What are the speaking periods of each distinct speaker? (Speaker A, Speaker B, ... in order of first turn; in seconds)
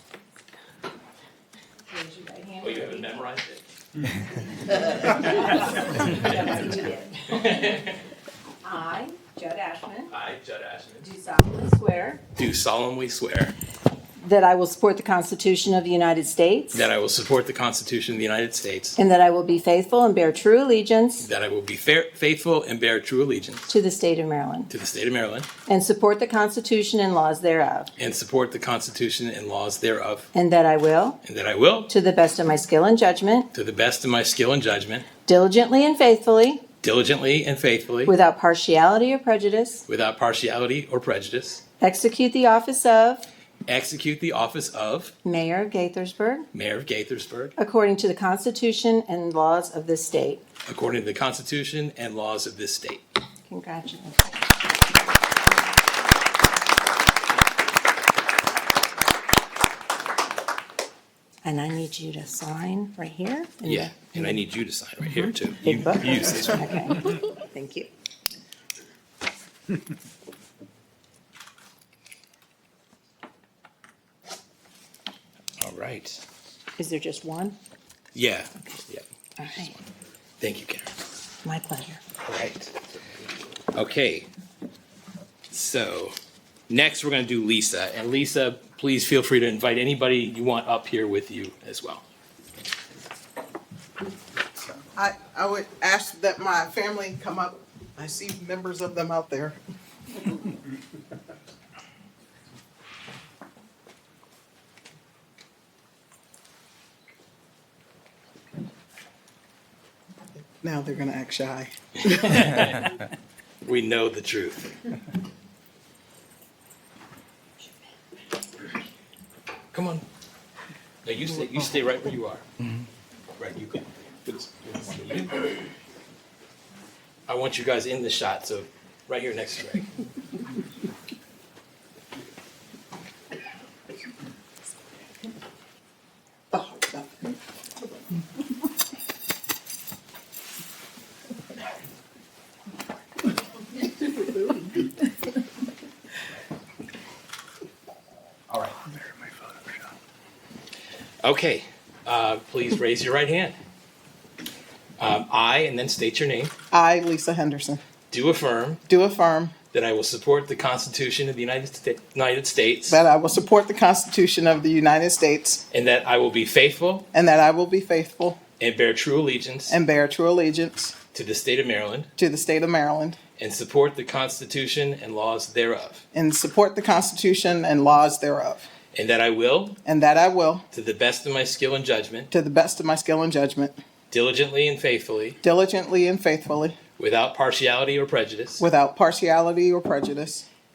Speaker A: 1.9-3.0, 4.7-7.8, 8.6-10.1, 11.0-12.2, 14.2-16.9, 18.9-21.3, 23.7-24.7, 25.6-27.9, 30.3-31.2, 31.9-33.5, 35.2-36.6, 38.0-39.8, 41.8-43.2, 45.2-46.5, 47.6-50.4, 53.5-54.4, 61.4-64.4, 65.1-67.9, 76.8-77.6, 79.4-79.7, 81.4-82.0
Speaker B: 2.6-3.6, 7.3-8.0, 10.1-11.1, 12.3-13.5, 16.7-19.0, 21.2-23.7, 24.7-25.5, 28.0-30.3, 31.2-31.9, 33.5-35.1, 36.8-38.1, 39.9-41.6, 43.7-45.1, 46.5-47.5, 50.6-53.0, 63.6-66.7, 75.6-76.2, 78.1-79.7, 80.4-80.9, 82.2-82.7, 83.7-84.3, 85.5-86.1, 86.7-92.0, 112.3-112.8, 113.6-114.8, 119.7-120.0, 121.0-122.4, 123.4-125.3, 127.3-129.9, 148.5-148.8, 151.2-153.6, 155.0-156.5, 158.1-158.8, 159.7-163.0, 165.7-167.1, 168.6-169.8, 171.1-172.1, 173.4-176.0, 178.9-179.8, 180.7-182.3, 184.1-185.4, 187.0-188.6
Speaker C: 94.9-99.6, 110.6-112.7, 136.5-137.3, 156.7-157.8, 158.9-159.6, 162.9-165.6, 167.1-168.4, 169.7-170.9, 172.2-173.2, 176.1-178.7, 179.8-180.6, 182.3-183.7, 185.4-186.8, 188.6-190.4